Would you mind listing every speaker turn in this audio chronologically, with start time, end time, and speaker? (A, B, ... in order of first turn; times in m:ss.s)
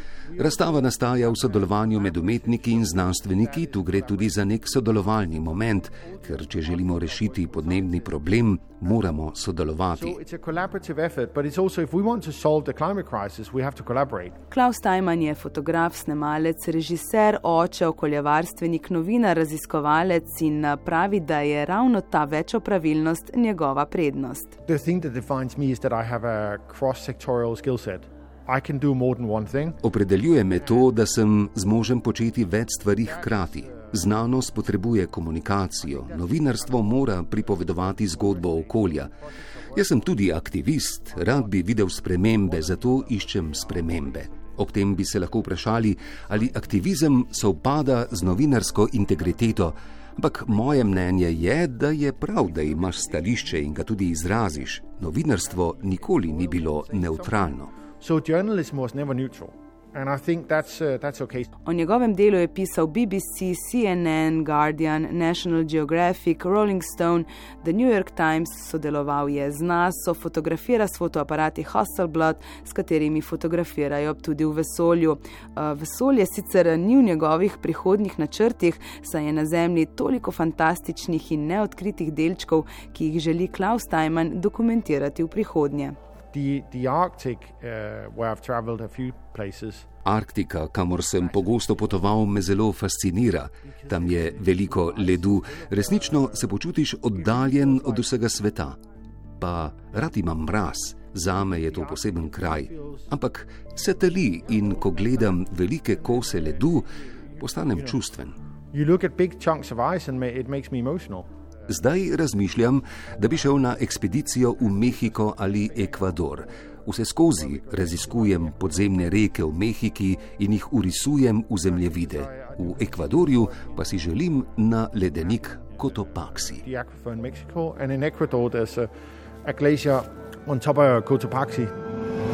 0:00.2-0:08.4 A
0:00.4-0:10.2 B
0:09.9-0:14.4 A
0:14.5-0:24.5 C
0:24.7-0:29.8 A
0:29.8-0:39.1 B
0:30.5-0:30.9 A
0:33.0-0:34.1 A
0:35.8-0:49.7 A
0:39.7-0:57.7 B
0:50.4-1:01.5 A
1:01.6-1:26.0 C
1:26.3-1:29.9 A
1:30.0-1:38.8 B
1:31.2-1:32.1 A
1:33.6-1:38.2 A
1:39.4-1:48.4 B
1:41.3-1:43.2 A
1:44.3-1:48.0 A
1:48.7-1:51.3 A
1:51.7-2:06.6 B
1:53.0-1:59.6 A
2:01.6-2:04.2 A
2:05.1-2:08.9 A
2:09.4-2:11.7 A